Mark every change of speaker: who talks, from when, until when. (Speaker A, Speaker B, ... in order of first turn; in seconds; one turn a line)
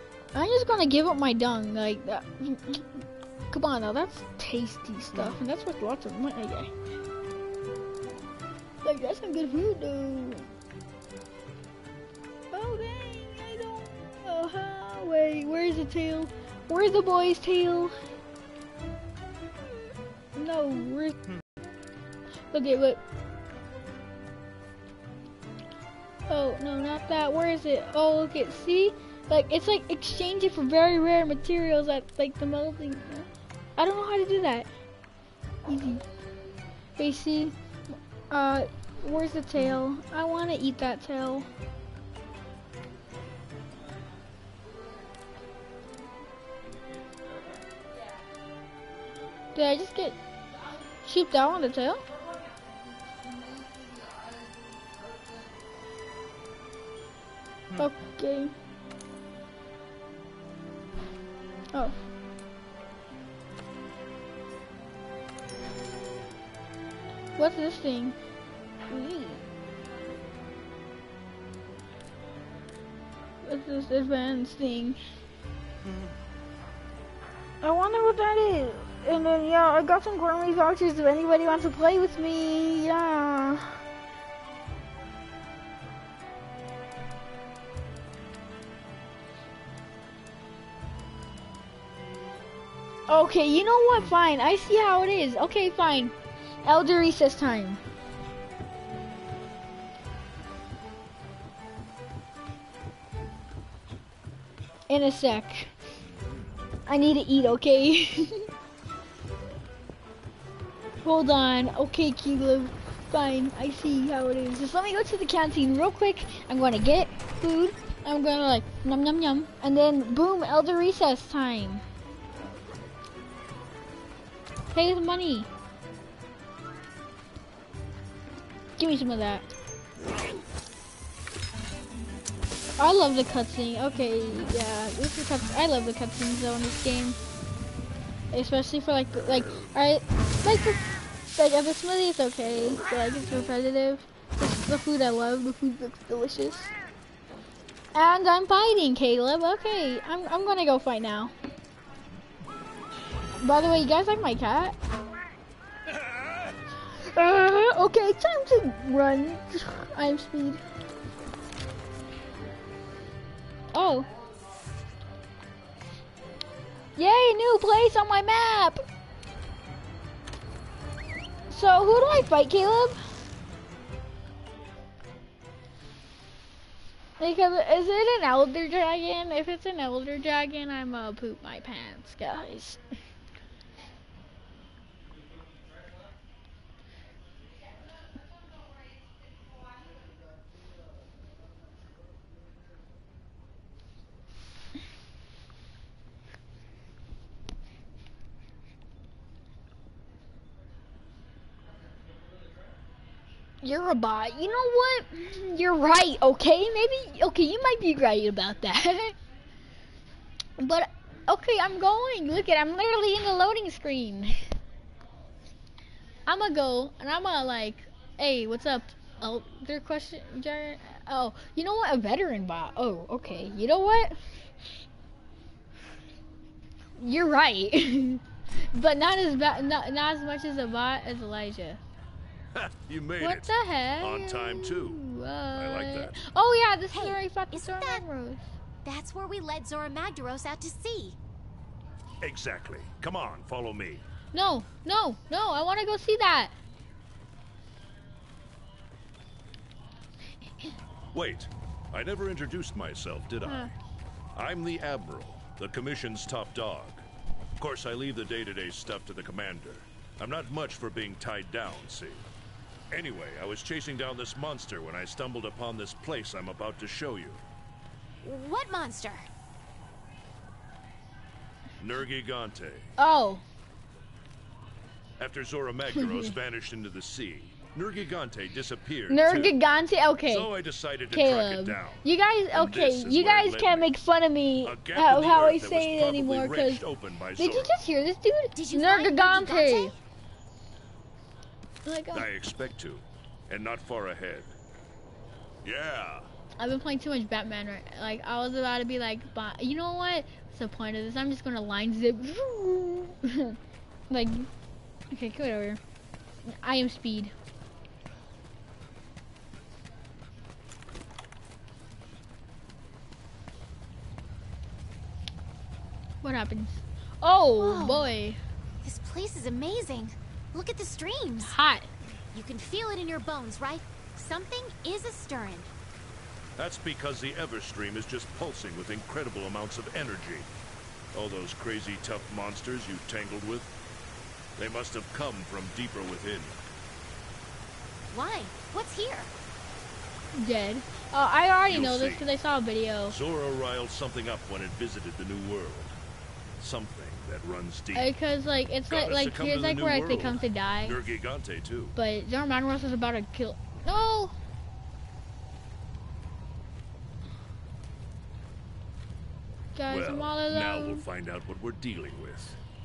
Speaker A: 0.3-6.7
Speaker A: 8.8-10.5
Speaker A: 12.5-17.9
Speaker A: 20.4-21.2
Speaker A: 22.5-23.0
Speaker A: 26.3-34.7
Speaker A: 35.7-36.0
Speaker A: 37.0-37.5
Speaker A: 38.3-41.5
Speaker A: 49.5-50.2
Speaker A: 51.0-52.0
Speaker A: 57.8-58.5
Speaker A: 67.4-68.2
Speaker A: 68.9-69.4
Speaker A: 73.4-75.0
Speaker A: 77.6-83.8
Speaker A: 93.1-97.8
Speaker A: 104.9-105.7
Speaker A: 106.9-108.5
Speaker A: 111.0-121.8
Speaker A: 124.7-125.5
Speaker A: 128.8-129.5
Speaker A: 132.8-137.2
Speaker A: 138.3-140.8
Speaker A: 141.4-146.7
Speaker A: 147.9-151.3
Speaker A: 153.4-154.8
Speaker A: 157.0-160.6
Speaker A: 163.7-164.1
Speaker A: 167.0-168.8
Speaker A: 171.5-173.0
Speaker A: 177.2-182.8
Speaker A: 203.6-209.2
Speaker A: 210.6-214.5
Speaker A: 216.3-224.2
Speaker A: 227.0-231.8
Speaker B: 232.5-235.0
Speaker A: 233.2-238.5
Speaker B: 235.6-236.2
Speaker C: 236.9-238.0
Speaker C: 238.8-241.2
Speaker B: 242.2-244.0
Speaker A: 244.3-246.5
Speaker B: 251.1-253.7
Speaker A: 253.4-253.7
Speaker B: 254.4-257.0
Speaker B: 257.6-262.3
Speaker B: 262.9-267.4
Speaker C: 268.2-269.3
Speaker B: 271.8-272.9
Speaker A: 273.0-273.4
Speaker B: 275.2-279.6
Speaker A: 275.9-276.3
Speaker A: 279.1-280.5
Speaker B: 280.3-283.9
Speaker A: 281.1-286.9
Speaker B: 284.6-287.8
Speaker A: 287.4-289.9
Speaker C: 288.6-290.0
Speaker A: 291.9-292.3
Speaker B: 292.1-294.5
Speaker B: 295.6-296.3
Speaker A: 296.6-303.6
Speaker A: 304.1-304.5
Speaker A: 305.1-305.8
Speaker A: 306.4-307.3
Speaker A: 316.2-318.4
Speaker C: 317.6-318.1
Speaker C: 318.8-321.6
Speaker A: 321.4-321.9
Speaker C: 322.3-325.7
Speaker B: 326.6-330.5
Speaker B: 331.1-333.7
Speaker B: 334.6-336.6
Speaker C: 338.1-339.3
Speaker A: 340.4-343.2
Speaker B: 341.7-342.3
Speaker B: 343.1-346.0
Speaker B: 346.6-348.1
Speaker A: 347.9-351.0
Speaker B: 348.9-351.9
Speaker A: 352.0-354.4
Speaker A: 359.8-361.0
Speaker B: 359.9-362.6